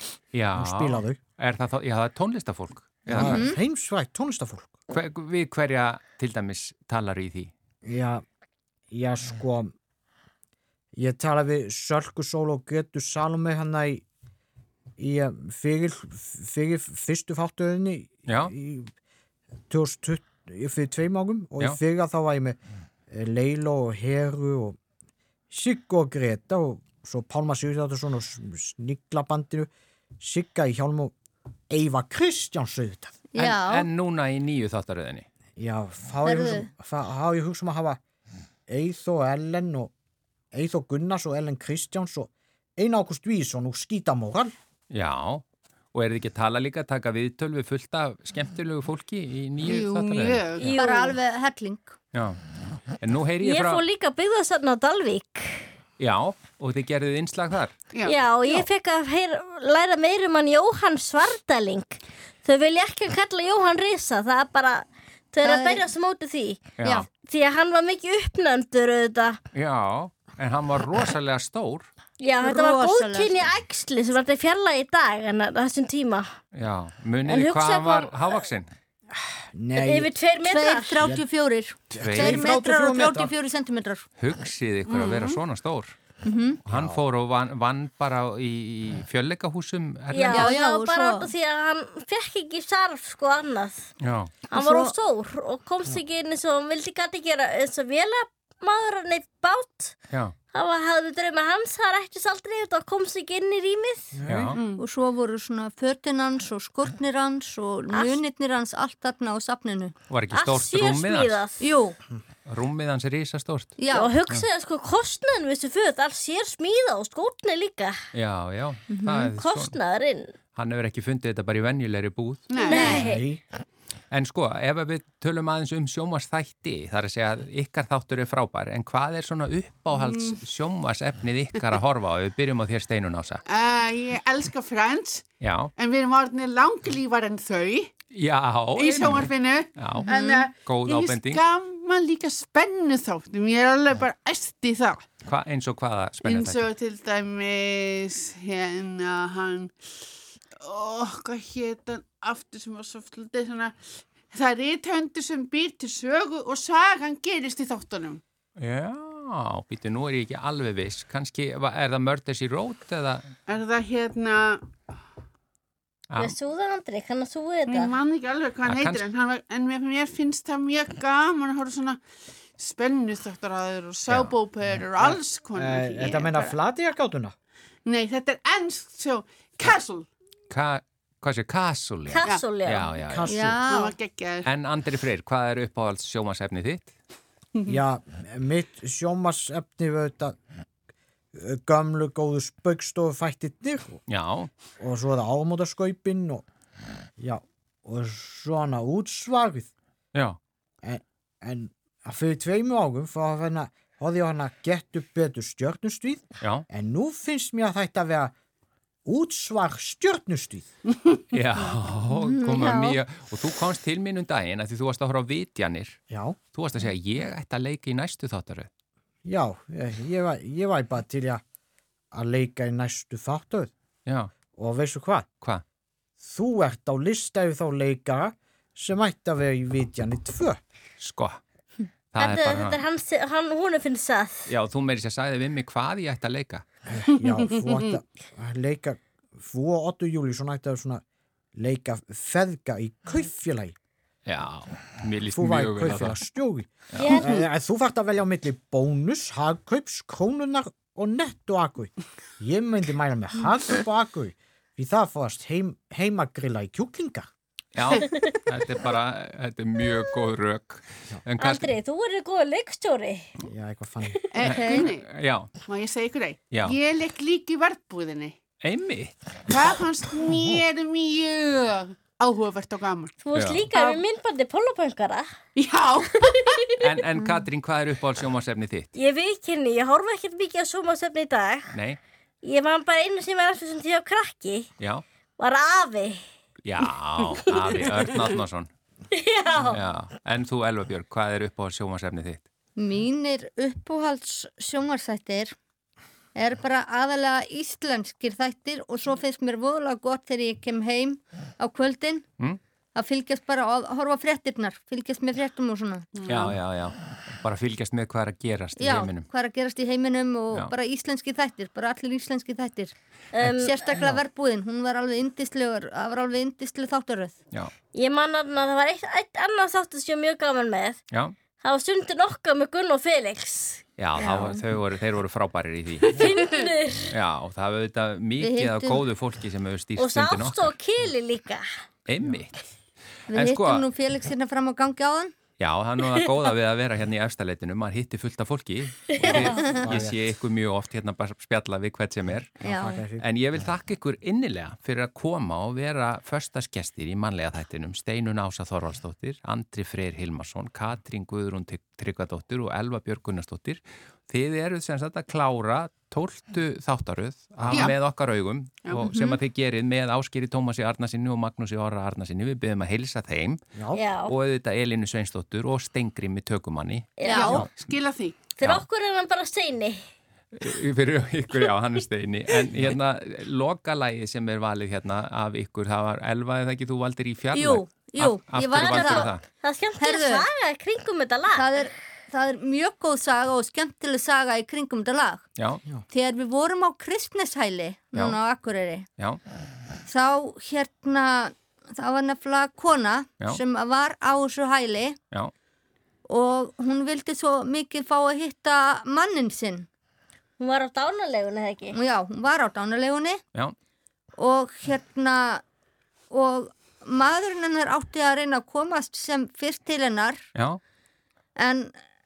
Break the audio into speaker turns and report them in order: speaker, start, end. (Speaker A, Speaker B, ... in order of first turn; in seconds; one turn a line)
Speaker A: 0.3-3.4
Speaker B: 0.5-1.2
Speaker B: 3.1-4.7
Speaker C: 3.2-3.6
Speaker A: 4.9-7.5
Speaker B: 7.8-8.2
Speaker B: 8.9-9.7
Speaker B: 10.9-14.0
Speaker B: 15.0-18.9
Speaker A: 18.3-18.5
Speaker B: 19.7-22.6
Speaker B: 23.1-24.8
Speaker B: 25.5-29.7
Speaker B: 30.2-31.1
Speaker B: 31.7-33.1
Speaker C: 33.3-33.9
Speaker A: 33.4-35.2
Speaker B: 35.6-38.0
Speaker C: 36.2-36.7
Speaker B: 38.7-39.9
Speaker B: 40.5-44.5
Speaker A: 44.9-50.5
Speaker D: 49.6-50.8
Speaker E: 50.6-51.2
Speaker C: 50.7-51.9
Speaker A: 52.1-52.4
Speaker A: 53.0-53.8
Speaker E: 53.4-55.7
Speaker A: 56.0-57.7
Speaker D: 57.9-58.6
Speaker E: 58.0-69.4
Speaker C: 65.4-65.8
Speaker A: 66.8-67.1
Speaker A: 69.5-71.9
Speaker E: 72.2-76.3
Speaker C: 72.4-73.5
Speaker A: 76.5-78.7
Speaker E: 77.2-78.2
Speaker B: 79.1-80.1
Speaker E: 79.8-81.0
Speaker C: 80.4-84.0
Speaker B: 81.9-83.3
Speaker A: 82.0-82.5
Speaker A: 84.2-85.9
Speaker D: 84.9-85.4
Speaker C: 86.2-86.6
Speaker A: 86.7-90.5
Speaker B: 86.7-87.0
Speaker E: 90.1-93.8
Speaker C: 90.3-91.3
Speaker A: 94.0-94.3
Speaker E: 94.5-100.0
Speaker C: 94.5-94.9
Speaker E: 100.5-104.2
Speaker B: 104.1-104.5
Speaker A: 104.2-104.6
Speaker D: 104.5-104.8
Speaker C: 104.8-109.9
Speaker E: 107.9-108.2
Speaker A: 110.1-111.4
Speaker E: 110.3-111.6
Speaker C: 111.6-112.0
Speaker A: 112.5-113.8
Speaker C: 113.8-114.1
Speaker E: 113.9-118.0
Speaker A: 118.1-119.7
Speaker C: 118.9-119.3
Speaker E: 119.3-120.3
Speaker A: 120.5-122.5
Speaker D: 122.5-123.2
Speaker E: 122.6-123.2
Speaker B: 122.9-123.4
Speaker A: 124.1-133.4
Speaker D: 130.1-130.4
Speaker D: 133.5-137.9
Speaker A: 135.4-135.7
Speaker A: 138.1-141.4
Speaker D: 138.8-145.1
Speaker C: 140.0-140.4
Speaker A: 145.2-146.7
Speaker D: 146.2-149.8
Speaker D: 150.6-153.8
Speaker D: 154.3-158.2
Speaker A: 158.6-163.3
Speaker D: 163.5-164.7
Speaker A: 166.1-166.3
Speaker E: 166.2-167.9
Speaker D: 167.7-172.0
Speaker A: 168.6-169.0
Speaker D: 172.6-176.6
Speaker A: 174.1-174.3
Speaker B: 175.0-177.3
Speaker D: 177.8-180.1
Speaker A: 180.5-183.4
Speaker E: 182.1-182.9
Speaker B: 183.1-183.6
Speaker C: 183.2-183.9
Speaker D: 183.6-184.5
Speaker A: 184.4-186.9
Speaker B: 187.7-190.3
Speaker B: 191.3-194.0
Speaker A: 194.1-194.5
Speaker B: 194.8-196.4
Speaker B: 197.2-199.7
Speaker B: 200.8-208.3
Speaker A: 206.4-206.7
Speaker B: 209.0-210.7
Speaker A: 211.3-216.0
Speaker C: 212.1-213.0
Speaker B: 216.1-216.4
Speaker A: 216.5-218.7
Speaker B: 219.2-221.4
Speaker B: 222.1-223.7
Speaker A: 224.1-224.3
Speaker B: 224.5-225.2
Speaker B: 226.2-230.6
Speaker A: 231.0-231.4
Speaker A: 232.1-232.8
Speaker E: 232.2-234.5
Speaker A: 234.5-236.6
Speaker B: 236.9-241.0
Speaker D: 237.2-237.9
Speaker B: 241.5-243.7
Speaker A: 244.2-246.2
Speaker B: 245.3-257.3
Speaker A: 246.9-247.2
Speaker E: 247.0-247.4
Speaker A: 257.7-261.7
Speaker E: 258.1-258.4
Speaker E: 261.4-263.3
Speaker B: 263.5-264.2
Speaker D: 264.3-265.1
Speaker A: 264.4-265.5
Speaker C: 264.5-264.8
Speaker D: 265.7-268.4
Speaker A: 266.5-266.8
Speaker A: 268.6-269.5
Speaker D: 269.5-273.2
Speaker E: 273.2-275.3
Speaker A: 273.3-273.6
Speaker D: 275.6-276.6
Speaker E: 276.2-276.9
Speaker A: 276.8-278.9
Speaker E: 278.9-281.7
Speaker A: 281.7-282.0
Speaker E: 282.4-284.7
Speaker E: 285.4-286.2
Speaker A: 286.6-288.7
Speaker E: 289.1-289.8
Speaker A: 289.7-292.4
Speaker C: 292.8-295.5
Speaker C: 296.3-302.2
Speaker C: 302.9-306.1
Speaker D: 306.1-306.6
Speaker A: 306.2-309.3
Speaker C: 308.8-317.4
Speaker E: 313.3-313.8
Speaker E: 317.9-321.0
Speaker E: 321.6-323.8
Speaker A: 324.0-326.4
Speaker C: 324.2-324.6
Speaker E: 326.1-327.1
Speaker A: 327.1-330.7
Speaker C: 328.4-329.0
Speaker E: 330.0-331.7
Speaker A: 332.1-332.7
Speaker C: 333.3-335.3
Speaker A: 333.3-333.8
Speaker A: 335.6-342.6
Speaker E: 339.1-339.7
Speaker B: 339.6-340.2
Speaker C: 342.6-343.0
Speaker B: 342.6-343.2
Speaker A: 343.2-363.6
Speaker D: 357.7-357.9
Speaker D: 358.9-359.1
Speaker C: 359.1-359.4
Speaker B: 363.7-364.0
Speaker E: 363.9-364.3
Speaker A: 364.3-367.1
Speaker E: 367.2-367.6
Speaker C: 367.2-367.6
Speaker D: 367.3-368.5
Speaker E: 368.6-370.0
Speaker A: 370.5-379.4
Speaker C: 377.5-379.3
Speaker E: 378.7-381.7
Speaker C: 380.0-380.5
Speaker C: 381.5-385.4
Speaker A: 385.6-385.8
Speaker C: 386.1-389.1
Speaker C: 390.1-395.2
Speaker C: 396.3-399.9
Speaker E: 400.6-402.0
Speaker C: 401.9-403.4
Speaker C: 404.4-405.6
Speaker C: 406.3-410.4
Speaker A: 410.5-410.8
Speaker C: 411.6-411.9